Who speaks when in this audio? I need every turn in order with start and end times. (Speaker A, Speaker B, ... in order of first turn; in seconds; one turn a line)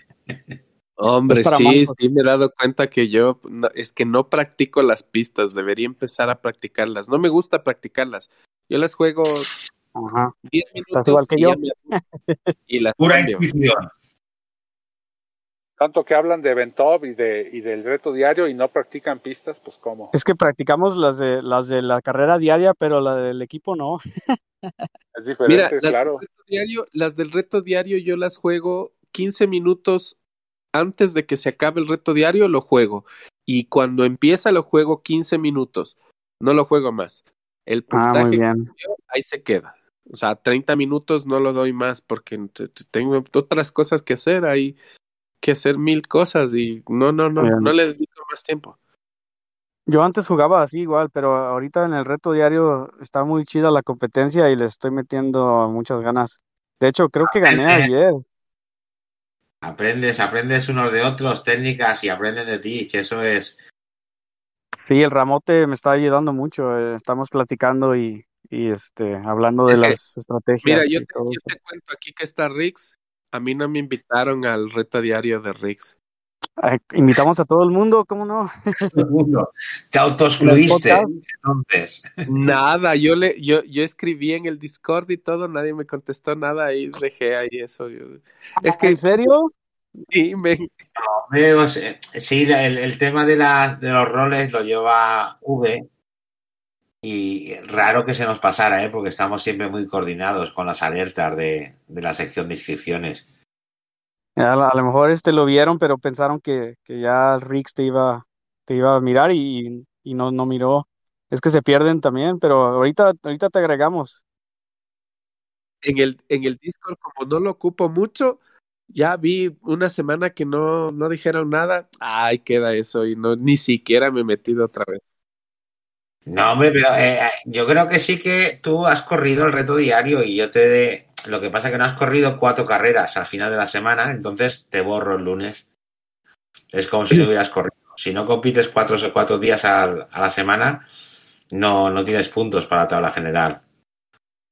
Speaker A: 1.0-9.5
Speaker B: 1.3-2.0
Speaker B: 9.9-10.3
Speaker A: 10.5-11.9
Speaker B: 10.9-12.5
Speaker A: 12.7-13.5
Speaker C: 13.0-13.9
Speaker D: 15.8-20.1
Speaker B: 20.1-24.9
Speaker D: 25.1-26.2
Speaker A: 25.5-30.2
Speaker A: 30.7-44.8
Speaker B: 37.9-38.7
Speaker A: 45.4-48.7
Speaker B: 47.4-47.7
Speaker B: 49.9-58.2
Speaker C: 57.3-57.9
Speaker C: 59.6-63.6
Speaker B: 64.8-71.5
Speaker A: 69.7-70.0
Speaker A: 70.6-75.9
Speaker B: 76.6-79.0
Speaker C: 78.9-82.5
Speaker B: 80.4-81.2
Speaker A: 82.3-89.3
Speaker B: 88.6-89.5
Speaker A: 90.1-90.7
Speaker C: 91.0-95.9
Speaker C: 97.0-103.2
Speaker B: 104.4-114.2
Speaker A: 115.8-118.4
Speaker A: 118.9-125.0
Speaker C: 126.3-135.6
Speaker C: 136.7-140.8
Speaker C: 141.5-143.6